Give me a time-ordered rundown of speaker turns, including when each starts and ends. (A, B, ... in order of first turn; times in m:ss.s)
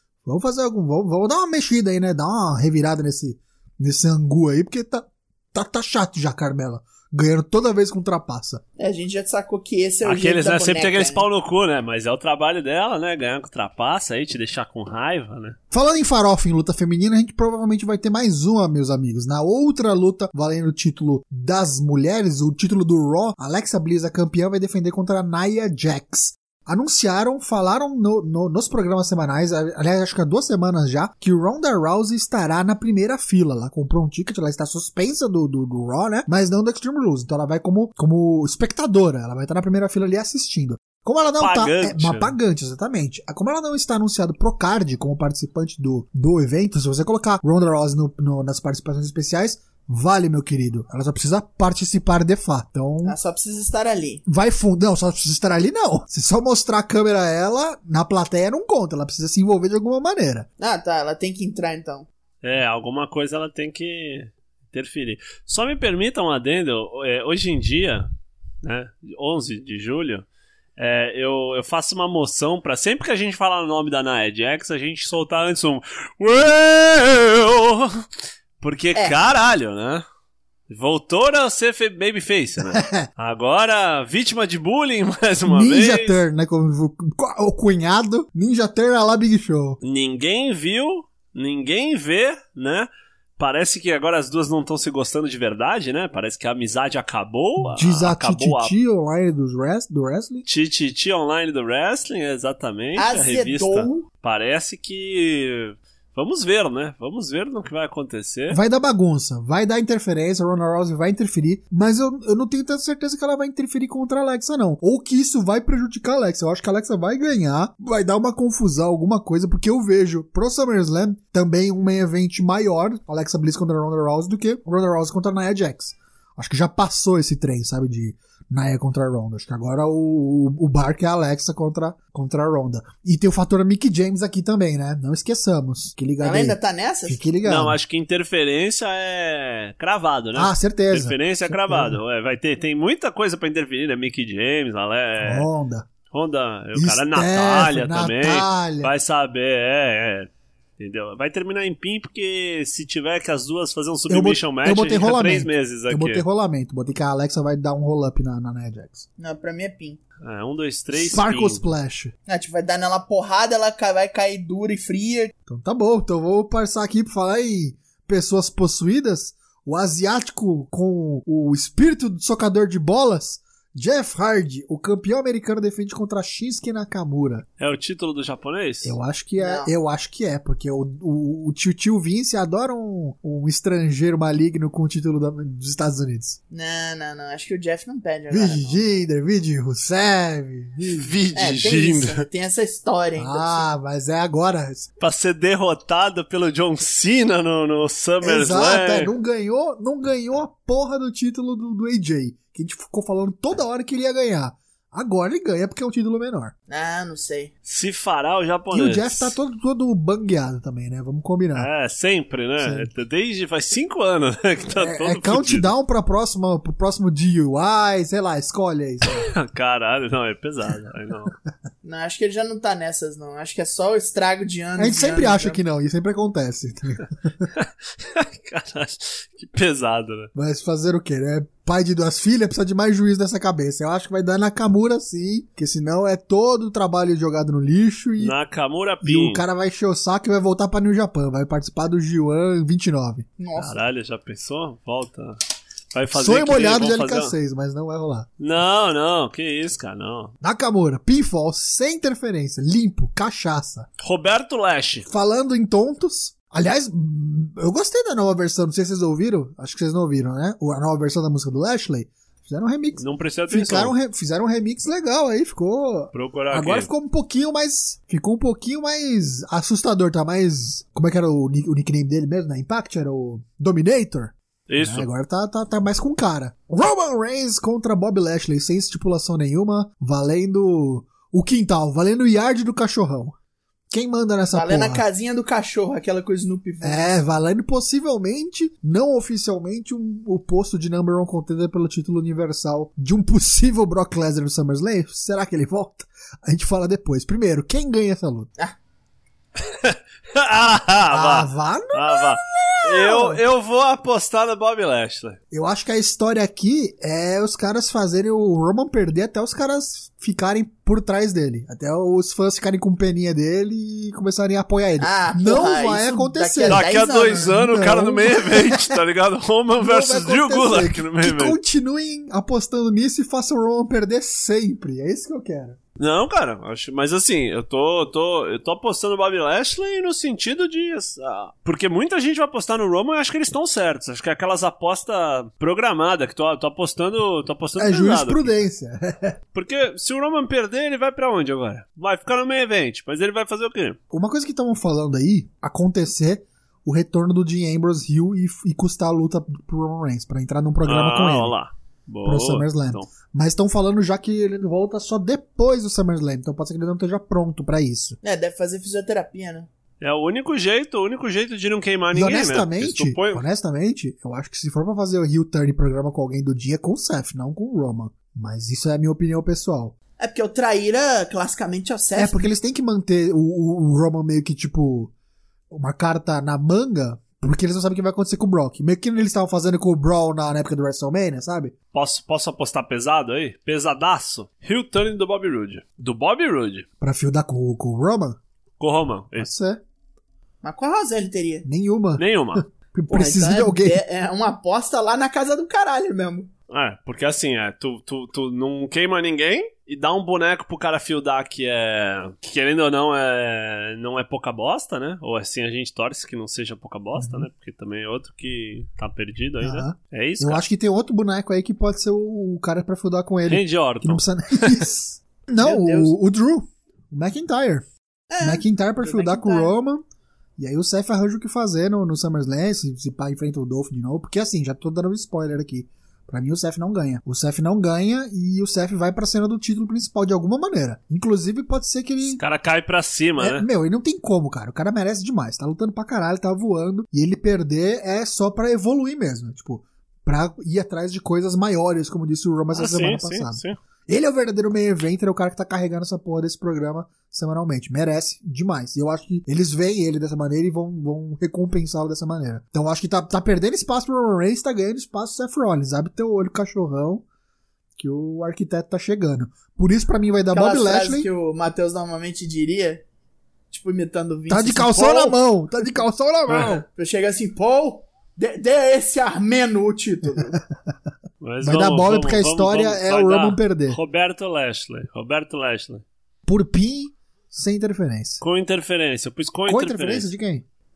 0:00.2-0:08.6 A
0:08.8-0:11.2 B
0:10.0-0:15.6 C
0:15.7-0:53.2 A
0:41.4-0:42.3 C
0:53.0-0:54.2 B
0:54.2-1:00.5 A
1:00.6-1:02.1 B
1:02.4-1:08.1 C
1:08.6-1:18.0 C
1:18.6-1:20.0 C
1:20.7-1:26.2 C
1:22.6-1:23.1 A
1:25.4-1:29.8 A
1:29.8-1:38.7 C
1:37.6-1:40.4 A
1:40.4-1:48.6 C
1:43.0-1:44.1 B
1:48.5-2:17.8 A
2:16.2-2:17.2 B
2:17.4-2:25.5 C
2:20.3-2:22.0 A
2:25.2-2:25.9 A
2:26.1-2:36.2 C
2:26.7-2:28.9 A
2:34.1-2:39.0 A
2:39.2-2:40.0 B
2:40.2-2:41.6 C
2:40.9-2:42.1 A
2:42.3-2:45.3 B
2:45.5-2:57.4 A
2:57.6-2:59.0 C
2:58.8-3:06.4 A
2:59.4-2:59.7 B
3:06.5-3:08.8 B
3:08.3-3:11.1 A
3:10.9-3:12.2 C
3:11.3-3:13.6 B
3:13.2-3:14.9 A
3:15.0-3:19.1 C
3:18.2-3:26.5 A
3:26.7-3:27.5 B
3:27.6-3:29.4 C
3:28.7-3:31.7 A
3:31.5-3:35.7 C
3:32.6-3:32.9 A
3:34.8-3:39.3 A
3:39.0-3:41.3 C
3:41.8-3:45.6 B
3:44.8-3:47.5 A
3:47.5-3:50.3 C
3:50.3-3:58.3 A
3:58.2-3:59.4 C
3:59.0-4:03.3 A
4:03.4-4:03.8 B
4:03.6-4:05.4 C
4:05.9-4:07.3 C
4:06.1-4:08.3 A
4:08.4-4:10.3 C
4:10.4-4:13.9 A
4:14.0-4:15.1 C
4:15.0-4:43.3 A
4:23.0-4:23.9 C
4:26.1-4:26.9 C
4:34.7-4:35.1 C
4:43.9-4:45.0 A
4:44.5-4:47.1 B
4:46.8-4:58.5 A
4:59.6-5:05.4 C
5:01.1-5:03.4 A
5:05.5-5:19.0 A
5:15.0-5:17.5 B
5:16.7-5:21.6 C
5:19.8-5:25.8 A
5:26.0-5:38.6 C
5:37.8-5:39.4 A
5:39.5-5:44.0 C
5:44.1-5:51.5 A
5:50.8-5:53.1 C
5:52.2-5:58.2 A
5:58.2-5:59.7 B
6:00.0-6:03.4 C
6:02.1-6:09.9 A
6:10.2-6:12.4 B
6:12.1-6:15.1 A
6:15.7-6:21.7 A
6:21.9-6:26.8 C
6:27.0-6:28.4 A
6:28.8-6:29.5 C
6:29.4-6:29.8 A
6:30.6-6:31.6 B
6:31.6-6:34.0 A
6:32.2-6:32.6 C
6:33.1-6:36.5 B
6:36.7-6:50.6 C
6:47.2-6:47.4 A
6:49.6-6:57.9 A
6:53.5-6:54.8 C
6:55.6-6:56.2 B
6:58.3-6:59.7 B
6:58.4-7:00.0 A
7:00.6-7:12.4 A
7:12.4-7:13.7 C
7:13.4-7:37.2 A
7:22.7-7:23.8 C
7:38.0-7:41.3 A
7:40.5-7:43.0 B
7:43.7-7:45.4 B
7:44.5-7:46.8 A
7:46.6-7:50.6 B
7:51.4-7:56.0 C
7:51.6-7:54.0 A
7:56.4-7:58.4 A
7:58.4-8:00.3 C
7:59.7-8:00.6 A